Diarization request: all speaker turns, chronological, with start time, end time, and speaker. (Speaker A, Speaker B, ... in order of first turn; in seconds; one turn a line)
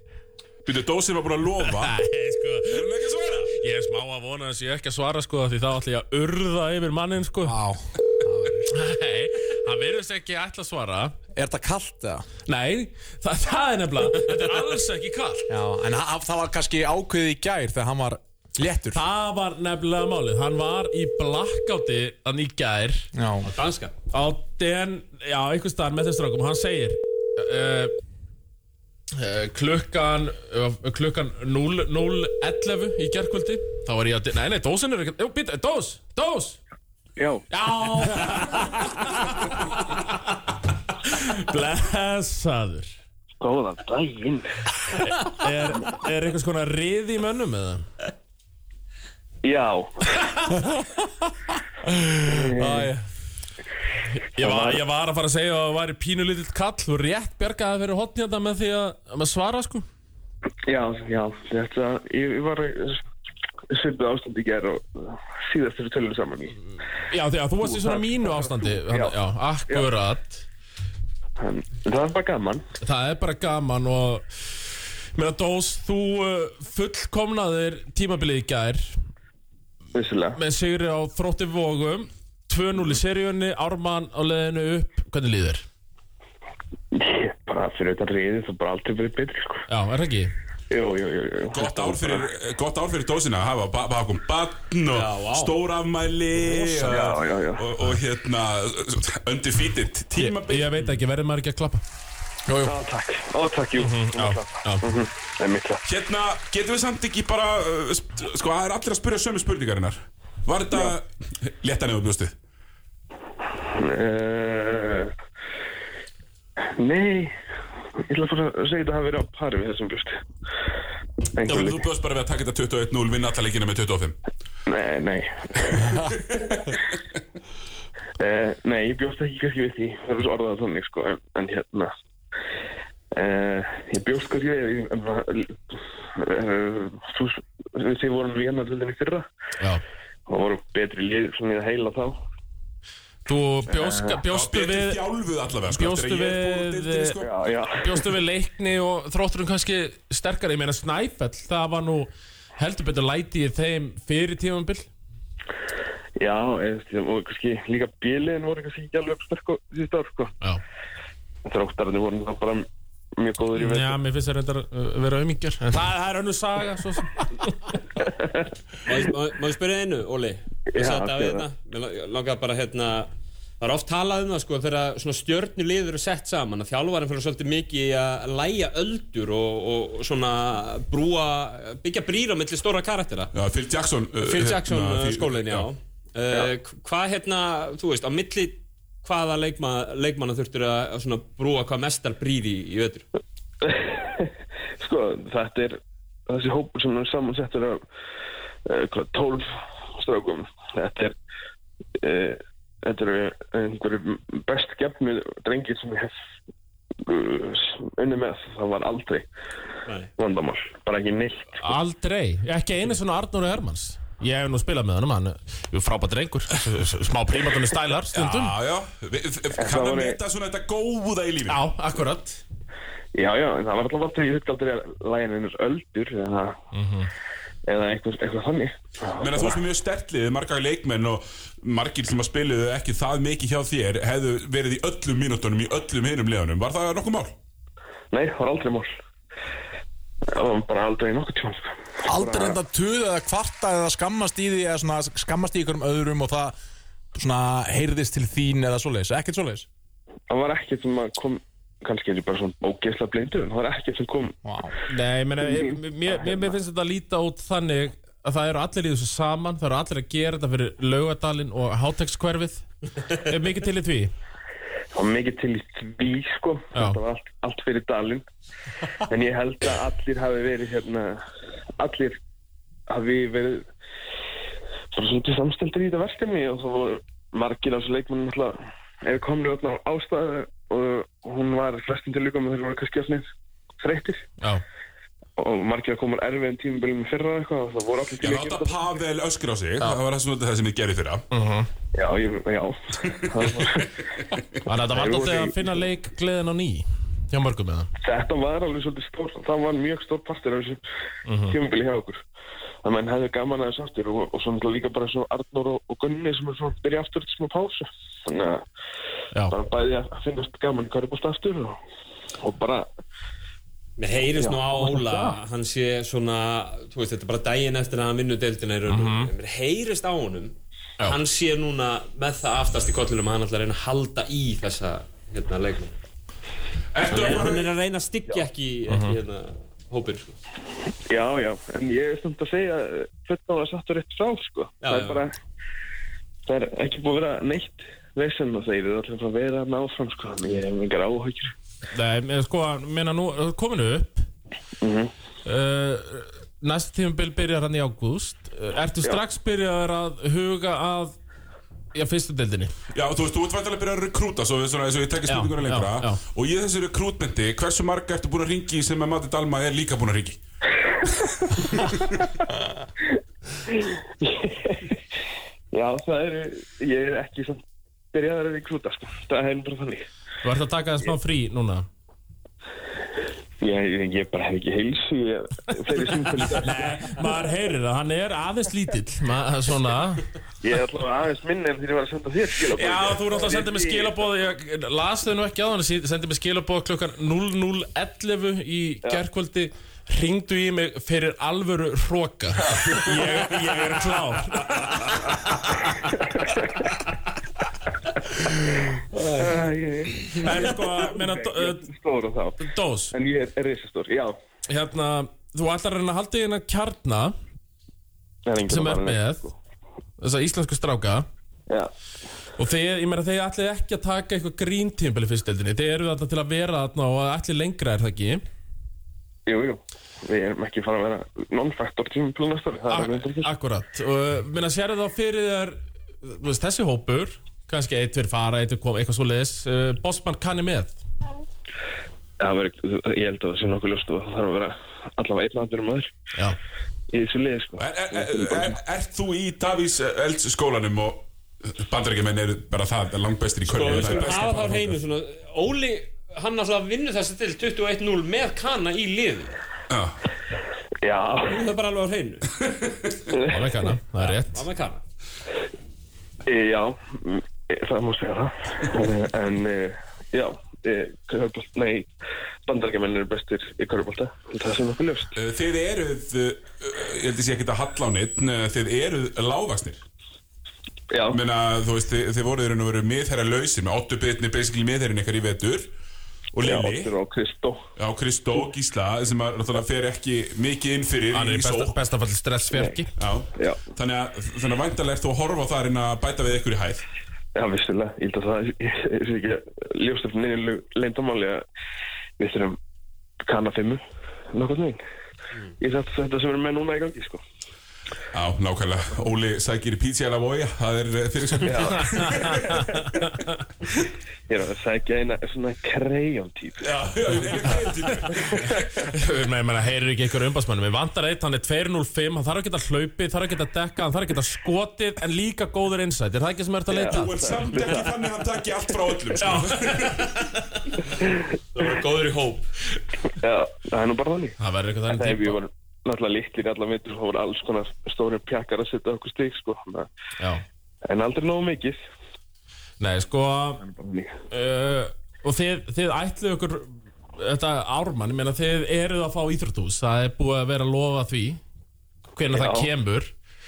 Speaker A: 0.6-1.9
Speaker B: 1.8-2.8
Speaker A: 2.7-3.5
Speaker B: 3.5-7.6
Speaker C: 7.4-8.7
Speaker B: 8.7-11.2
Speaker C: 11.3-12.2
Speaker B: 12.4-15.5
Speaker C: 15.5-19.0
Speaker B: 18.9-23.1
Speaker C: 23.1-23.5
Speaker D: 23.4-23.9
Speaker B: 24.1-27.9
Speaker B: 29.1-36.6
Speaker E: 37.2-37.4
Speaker B: 37.5-40.3
Speaker B: 41.0-42.9
Speaker E: 43.4-44.9
Speaker B: 45.0-47.9
Speaker E: 49.4-50.5
Speaker E: 52.2-52.9
Speaker C: 52.5-53.0
Speaker B: 54.1-59.9
Speaker E: 54.4-54.8
Speaker E: 60.7-63.0
Speaker E: 63.7-66.6
Speaker B: 67.1-70.4
Speaker E: 67.6-69.9
Speaker E: 71.4-72.7
Speaker B: 72.8-74.2
Speaker B: 75.1-79.0
Speaker E: 79.9-80.4
Speaker B: 80.3-85.6
Speaker E: 86.9-89.7
Speaker B: 89.7-90.3
Speaker E: 90.7-92.2
Speaker A: 91.5-100.8
Speaker D: 94.9-95.5
Speaker E: 96.5-97.7
Speaker B: 100.2-101.8
Speaker C: 102.5-102.7
Speaker E: 102.6-105.8
Speaker B: 103.8-104.9
Speaker A: 105.8-112.3
Speaker E: 113.7-115.1
Speaker E: 116.8-117.3
Speaker E: 118.1-120.2
Speaker E: 121.3-121.8
Speaker A: 121.4-124.2
Speaker E: 124.7-126.0
Speaker A: 125.7-126.7
Speaker E: 128.2-131.9
Speaker E: 133.2-139.2
Speaker E: 140.3-142.2
Speaker B: 143.2-145.0
Speaker E: 143.7-144.2
Speaker A: 144.3-147.3
Speaker B: 145.7-147.2
Speaker E: 147.2-148.1
Speaker B: 147.8-154.9
Speaker E: 156.2-160.3
Speaker E: 161.5-162.7
Speaker E: 163.2-164.0
Speaker B: 163.6-167.4
Speaker E: 168.0-168.4
Speaker D: 168.8-173.1
Speaker E: 170.7-171.4
Speaker D: 173.6-183.3
Speaker A: 183.3-185.7
Speaker D: 184.2-193.1
Speaker E: 193.6-197.8
Speaker E: 198.7-201.1
Speaker E: 202.0-206.1
Speaker E: 207.0-209.2
Speaker E: 210.2-211.5
Speaker B: 211.6-218.6
Speaker A: 218.1-221.6
Speaker E: 219.6-220.2
Speaker B: 221.5-222.4
Speaker E: 223.1-226.6
Speaker B: 226.7-227.1
Speaker E: 227.7-229.6
Speaker A: 229.2-237.3
Speaker E: 238.1-238.9
Speaker E: 240.3-242.6
Speaker C: 242.1-246.5
Speaker C: 247.1-249.7
Speaker E: 250.3-254.4
Speaker C: 254.4-254.7
Speaker B: 254.9-264.1
Speaker E: 255.4-256.5
Speaker E: 264.9-268.2
Speaker B: 266.7-267.0
Speaker E: 269.0-271.2
Speaker E: 271.8-272.2
Speaker E: 272.9-273.7
Speaker E: 274.9-283.3
Speaker E: 283.8-284.2
Speaker E: 285.4-288.8
Speaker A: 288.2-291.2
Speaker B: 291.3-291.7
Speaker E: 291.9-294.0
Speaker A: 293.0-294.5
Speaker B: 294.6-297.9
Speaker E: 294.8-295.8
Speaker E: 298.0-300.8
Speaker B: 301.3-301.5
Speaker E: 301.5-302.2
Speaker E: 302.8-308.6
Speaker E: 309.5-311.8
Speaker E: 312.4-312.9
Speaker D: 314.0-325.9
Speaker E: 314.4-314.7
Speaker B: 318.9-319.3
Speaker A: 326.9-327.7
Speaker D: 327.1-330.3
Speaker B: 328.9-329.2
Speaker E: 331.1-335.4
Speaker D: 334.8-335.2
Speaker E: 336.4-341.5
Speaker B: 341.9-344.3
Speaker E: 344.8-345.1
Speaker B: 345.4-351.1
Speaker B: 351.9-352.7
Speaker A: 352.9-360.4
Speaker B: 355.3-356.2
Speaker A: 361.6-362.3
Speaker E: 363.6-365.0
Speaker E: 365.7-367.6
Speaker E: 368.1-370.1
Speaker B: 370.4-371.9
Speaker E: 373.6-376.7
Speaker B: 376.5-380.2
Speaker E: 380.6-384.1
Speaker B: 382.7-395.5
Speaker E: 392.7-393.0
Speaker E: 396.3-396.8
Speaker E: 398.4-404.4
Speaker B: 400.4-401.8
Speaker B: 402.6-403.1
Speaker B: 404.7-407.3
Speaker E: 408.4-409.5
Speaker B: 408.7-409.5
Speaker B: 410.2-411.3
Speaker B: 412.6-418.4
Speaker E: 419.5-423.5
Speaker B: 422.9-431.0
Speaker E: 432.4-436.1
Speaker E: 437.1-438.6
Speaker A: 437.8-444.9
Speaker D: 443.7-449.5
Speaker A: 449.9-450.2
Speaker E: 451.0-451.7
Speaker D: 451.5-452.5
Speaker A: 452.6-453.2
Speaker E: 453.3-453.6
Speaker B: 453.5-454.6
Speaker D: 454.2-455.0
Speaker E: 456.4-462.1
Speaker E: 462.7-465.4
Speaker A: 465.3-470.0
Speaker E: 471.1-471.4
Speaker A: 471.3-475.9
Speaker A: 476.5-477.1
Speaker E: 476.6-477.8
Speaker A: 477.9-482.0
Speaker B: 481.3-483.1
Speaker A: 483.2-487.0
Speaker E: 483.6-483.9
Speaker E: 487.5-491.6
Speaker E: 492.4-492.8
Speaker E: 493.5-494.0
Speaker E: 494.5-495.0
Speaker E: 495.8-497.4
Speaker A: 498.3-503.1
Speaker E: 501.6-502.8
Speaker E: 504.5-507.7
Speaker A: 506.8-508.9
Speaker B: 509.1-517.5
Speaker E: 516.9-518.1
Speaker A: 517.1-520.3
Speaker B: 519.4-520.3
Speaker E: 521.2-521.4
Speaker D: 521.7-522.7
Speaker E: 523.3-524.6
Speaker B: 524.6-525.6
Speaker E: 525.1-530.1
Speaker B: 530.4-530.6
Speaker E: 531.1-532.0
Speaker B: 533.0-533.8
Speaker E: 533.8-534.4
Speaker B: 534.5-541.6
Speaker B: 542.3-543.3
Speaker E: 542.5-542.9